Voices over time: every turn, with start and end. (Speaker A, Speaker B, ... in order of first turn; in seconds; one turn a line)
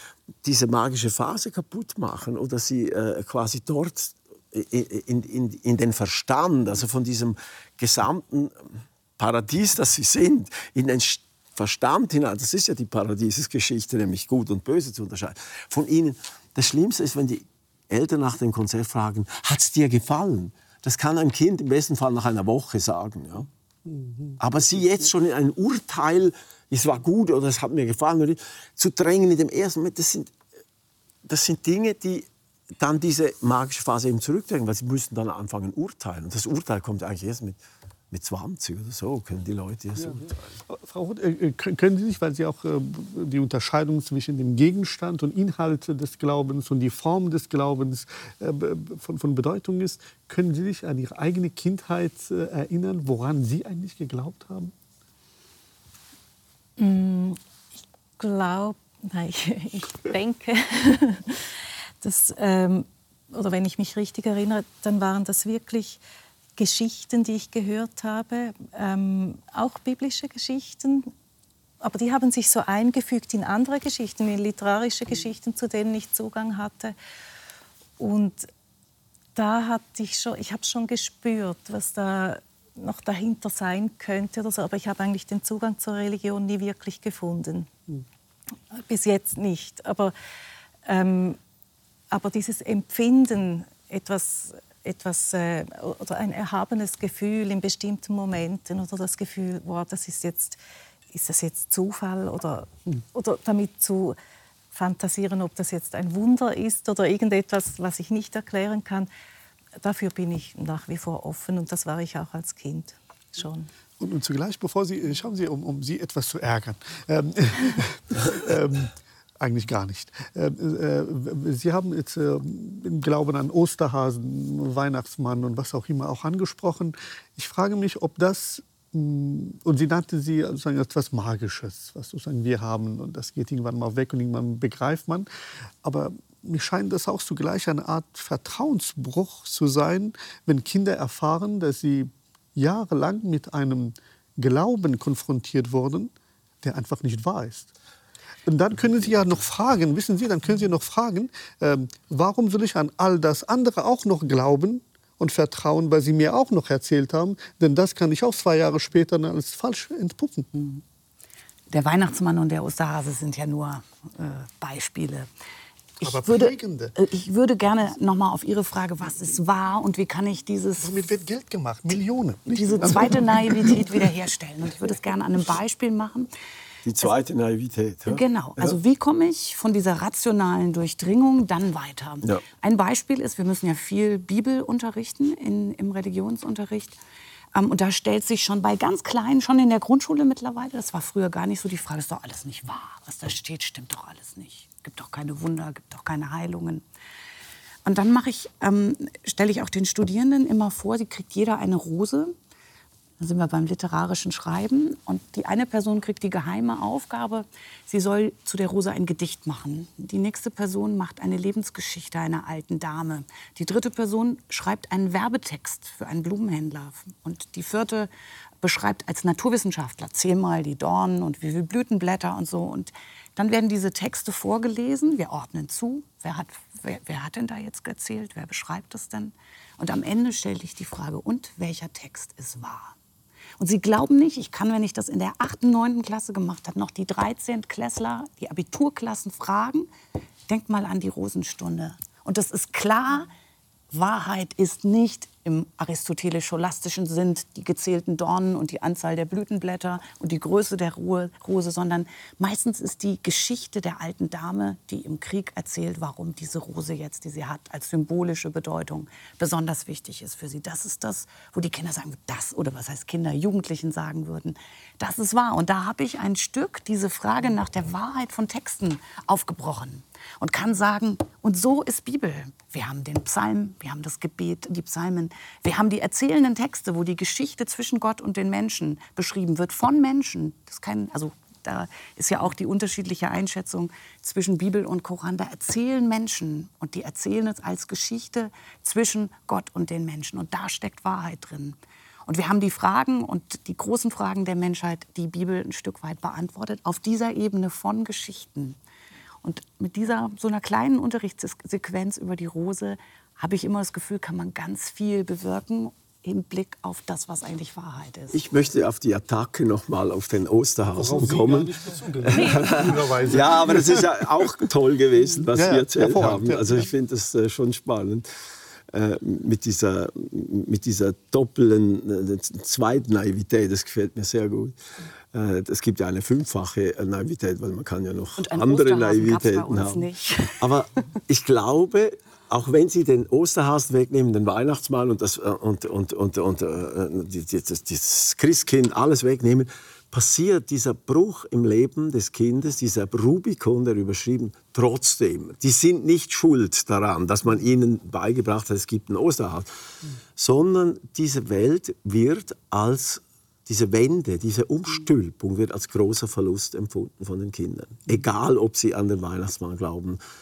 Speaker A: 0.4-23.5
Speaker B: 23.9-24.4
Speaker A: 24.4-30.3
Speaker A: 31.2-32.3
Speaker A: 32.8-37.6
Speaker A: 38.1-40.4
Speaker B: 40.0-54.7
Speaker C: 56.8-57.4
Speaker C: 58.2-66.0
Speaker C: 66.6-71.1
Speaker C: 71.8-76.9
Speaker C: 78.0-78.5
Speaker C: 79.3-87.7
Speaker C: 88.7-90.1
Speaker C: 90.8-91.4
Speaker C: 92.1-100.6
Speaker C: 101.1-104.2
Speaker C: 104.7-109.1
Speaker C: 109.8-113.7
Speaker B: 114.0-135.3
Speaker B: 135.8-147.7
Speaker B: 148.4-160.5
Speaker D: 160.5-160.8
Speaker D: 161.7-165.3
Speaker D: 166.0-171.0
Speaker B: 166.0-166.9
Speaker B: 170.8-174.1
Speaker D: 172.5-176.3
Speaker A: 176.8-178.8
Speaker D: 178.1-187.0
Speaker D: 187.5-196.8
Speaker D: 197.8-202.3
Speaker D: 203.2-218.1
Speaker D: 218.6-232.9
Speaker D: 233.6-239.9
Speaker D: 240.5-243.3
Speaker D: 243.9-298.8
Speaker D: 299.4-308.4
Speaker A: 308.3-318.2
Speaker B: 310.9-314.2
Speaker B: 315.5-316.9
Speaker A: 318.9-324.8
Speaker A: 325.3-330.1
Speaker D: 328.4-330.6
Speaker A: 330.6-349.7
Speaker A: 350.4-360.2